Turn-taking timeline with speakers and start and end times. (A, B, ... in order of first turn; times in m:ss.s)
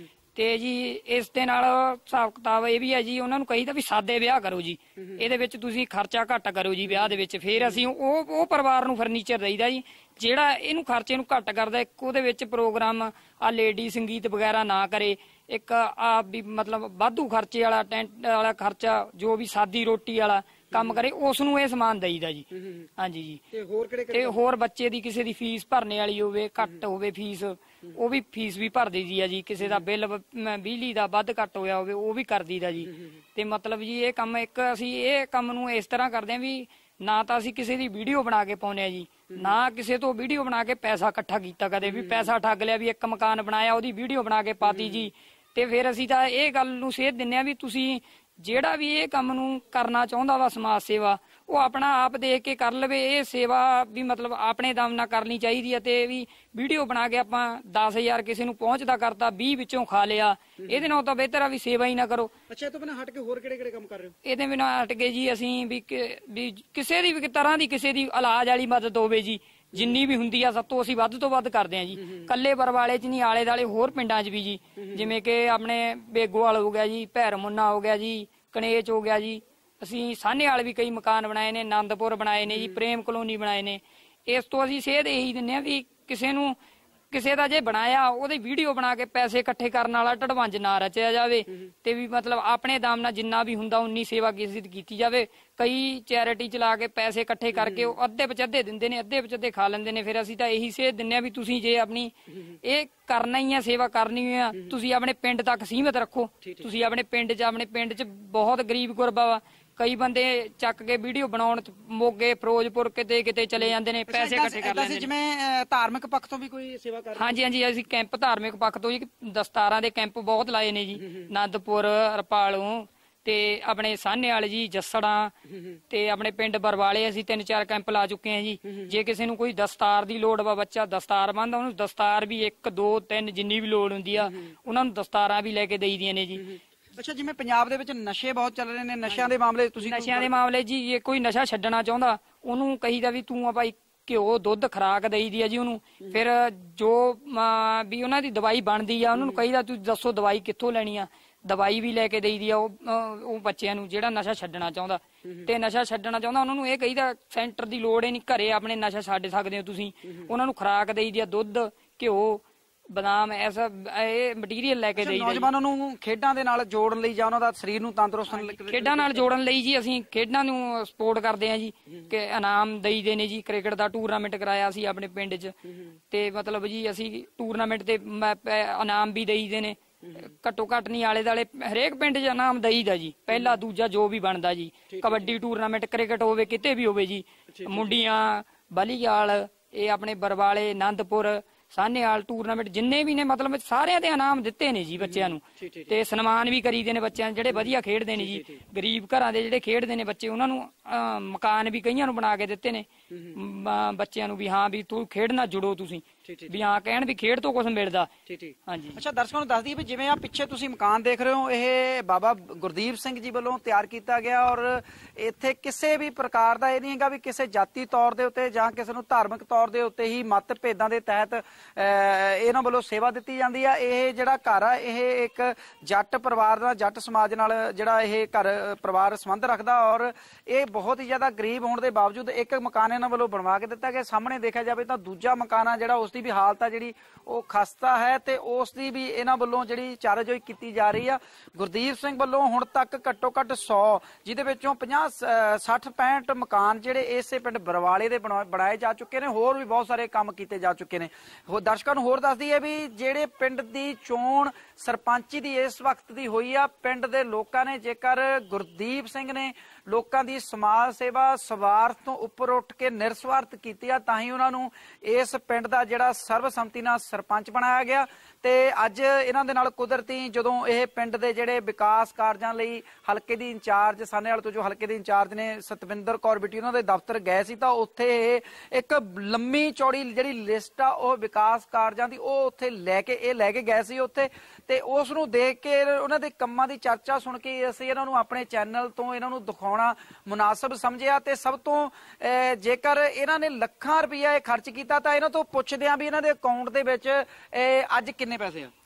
0:00.4-0:22.5 A
0:05.0-0:05.2 B
0:06.9-0:07.8 B
0:20.7-0:21.0 B
0:22.5-0:22.9 B
0:23.0-0:23.4 A
0:23.5-0:24.4 B
0:24.1-1:02.3 A
0:29.6-0:29.9 B
0:39.3-0:39.6 B
0:41.8-0:42.3 B
0:44.6-0:45.1 B
1:00.6-1:01.0 B
1:02.5-1:04.1 B
1:04.2-1:26.6 A
1:22.5-1:22.8 B
1:27.1-1:42.1 A
1:37.6-1:38.0 B
1:42.6-1:55.1 A
1:54.1-1:57.4 B
1:57.2-2:05.4 A
2:05.9-2:16.6 A
2:17.0-2:20.3 B
2:19.1-2:45.5 A
2:29.1-2:29.4 B
2:35.2-2:35.5 B
2:45.0-2:49.3 B
2:48.3-2:55.5 A
2:56.1-3:28.1 A
3:04.9-3:05.3 B
3:07.5-3:07.9 B
3:15.0-3:16.0 B
3:17.5-3:18.6 B
3:23.1-3:23.4 B
3:26.2-3:26.6 B
3:28.3-4:58.7 B
3:28.7-3:29.0 A